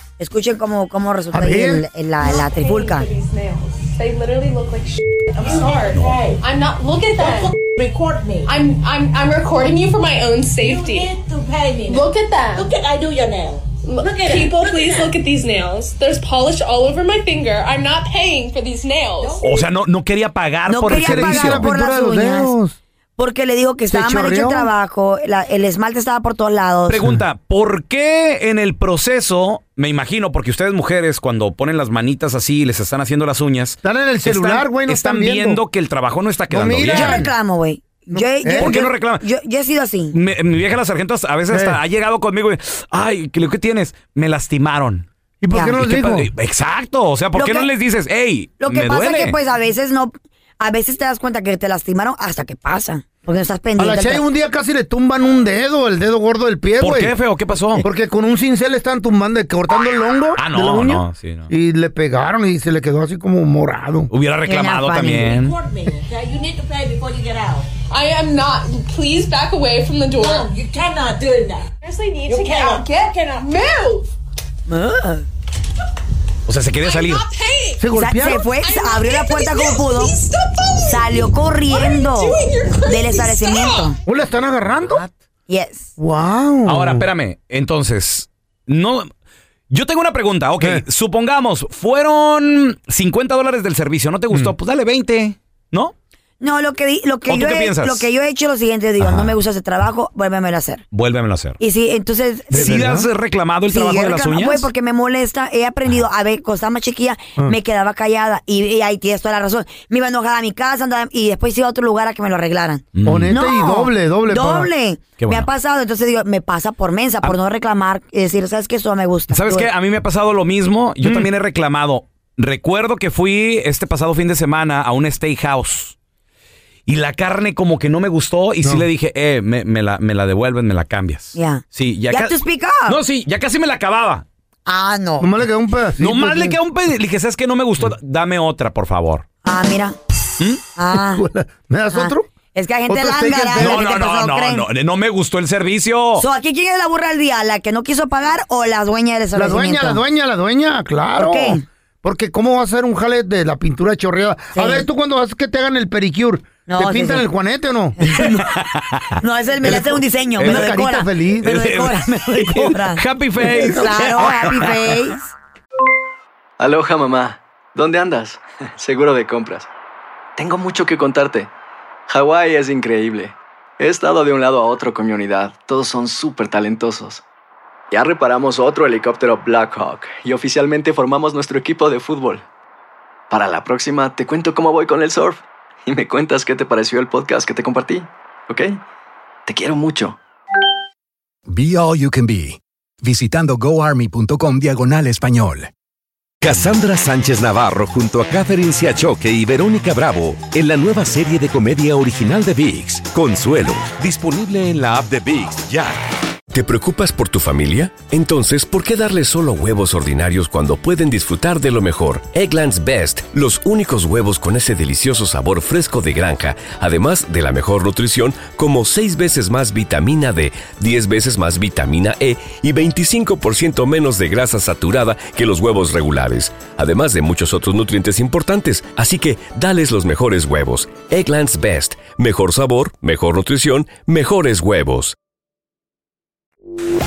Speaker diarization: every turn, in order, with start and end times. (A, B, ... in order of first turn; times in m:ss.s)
0:00.2-0:03.1 A
0:01.3-0:01.8 B
0:02.2-0:07.7 C
0:05.4-0:06.4 D
0:07.1-0:08.5 D
0:08.4-0:11.2 C
0:10.6-0:15.2 D
0:11.8-0:12.7 C
0:13.8-0:19.4 C
0:19.2-0:19.6 D
0:19.4-0:21.6 E
0:20.7-0:22.5 A
0:20.9-0:22.8 B
0:23.2-0:27.0 A
0:23.9-0:24.7 B
0:26.9-0:37.3 E
0:33.8-0:35.6 B
0:36.5-0:37.3 B
0:36.8-0:40.2 A
0:38.1-0:38.8 B
0:38.6-0:39.2 E
0:40.1-0:45.0 E
0:41.5-0:41.8 B
0:45.4-0:46.3 B
0:45.5-0:45.8 A
0:45.8-0:49.4 E
0:47.3-0:47.7 A
0:48.6-0:54.2 A
0:53.8-0:57.1 B
0:56.8-0:57.8 E
0:57.8-1:04.1 B
1:00.4-1:01.5 E
1:04.1-1:05.6 E
1:04.5-1:05.3 A
1:05.2-1:07.6 D
1:07.9-1:10.5 C
1:10.2-1:11.7 D
1:11.8-1:14.1 C
1:12.2-1:13.7 D
1:14.7-1:15.2 A
1:16.4-1:17.2 E
1:16.8-1:24.0 C
1:17.8-1:18.4 B
1:17.9-1:20.1 A
1:20.8-1:24.0 A
1:24.0-1:25.0 B
1:25.5-1:25.9 A
1:26.0-1:27.0 B
1:26.6-1:29.1 E
1:29.7-1:35.9 E
1:36.4-1:40.8 A
1:37.3-1:38.0 E
1:39.0-1:39.3 E
1:40.9-1:41.6 E
1:41.6-1:42.9 A
1:42.5-1:43.1 B
1:42.5-1:44.7 E
1:43.7-1:59.7 A
1:52.9-1:53.4 E
1:53.0-1:54.7 B
1:55.2-1:55.5 E
1:59.3-2:05.9 E
2:01.0-2:01.3 B
2:06.9-2:14.2 E
2:11.4-2:13.0 A
2:14.6-2:15.3 A
2:15.2-2:16.6 B
2:16.0-2:19.2 E
2:19.4-2:20.0 A
2:20.8-2:21.2 A
2:20.9-2:22.3 B
2:21.9-2:24.6 A
2:22.9-2:23.9 B
2:23.6-2:26.2 E
2:26.2-2:30.0 A
2:29.3-2:38.0 B
2:31.2-2:31.6 A
2:34.5-2:34.8 A
2:36.7-2:37.2 A
2:38.0-2:38.4 A
2:38.1-2:39.2 E
2:39.2-2:45.3 A
2:39.6-2:41.6 B
2:40.4-2:40.7 E
2:41.4-2:44.8 E
2:43.4-2:44.1 B
2:46.6-2:49.7 F
2:50.4-2:51.5 F
2:52.1-2:57.2 F
2:57.9-3:02.4 F
3:03.3-3:08.8 F
3:09.5-3:10.2 F
3:11.5-3:15.7 G
3:16.4-3:26.0 H
3:26.5-3:55.2 I